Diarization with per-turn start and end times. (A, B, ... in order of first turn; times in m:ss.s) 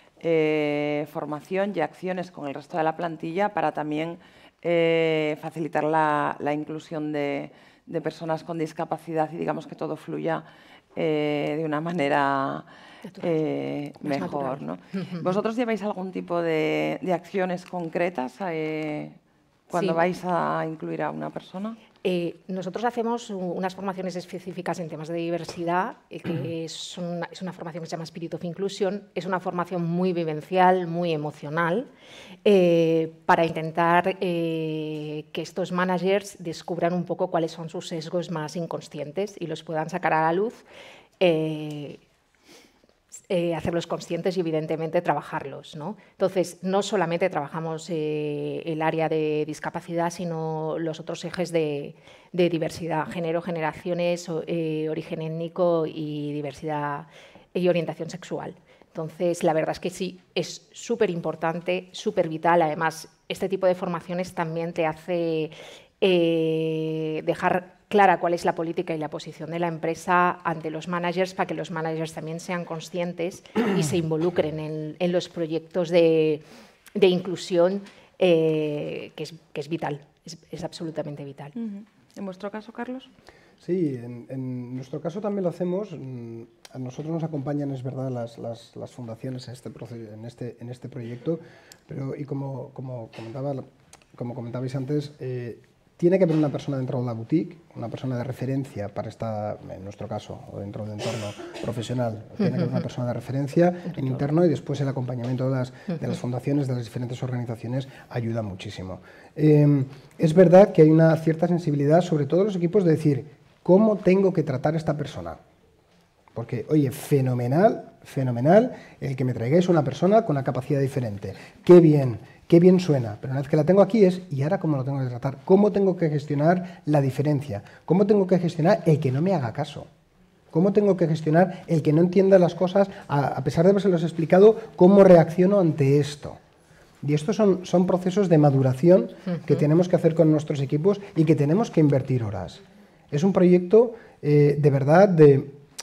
0:00.2-0:12.7 A
0:13.1-0:13.3 B
0:13.2-0:19.2 A
0:14.0-0:15.3 B
0:19.7-0:21.8 A
0:19.7-0:20.0 B
0:22.0-0:31.9 B
0:32.4-0:40.6 B
0:41.2-0:42.0 B
0:43.3-1:16.4 B
1:17.0-1:21.6 B
1:21.6-1:23.1 A
1:23.6-1:55.4 C
1:56.4-2:09.9 C
2:10.5-2:16.4 C
2:17.0-2:25.6 C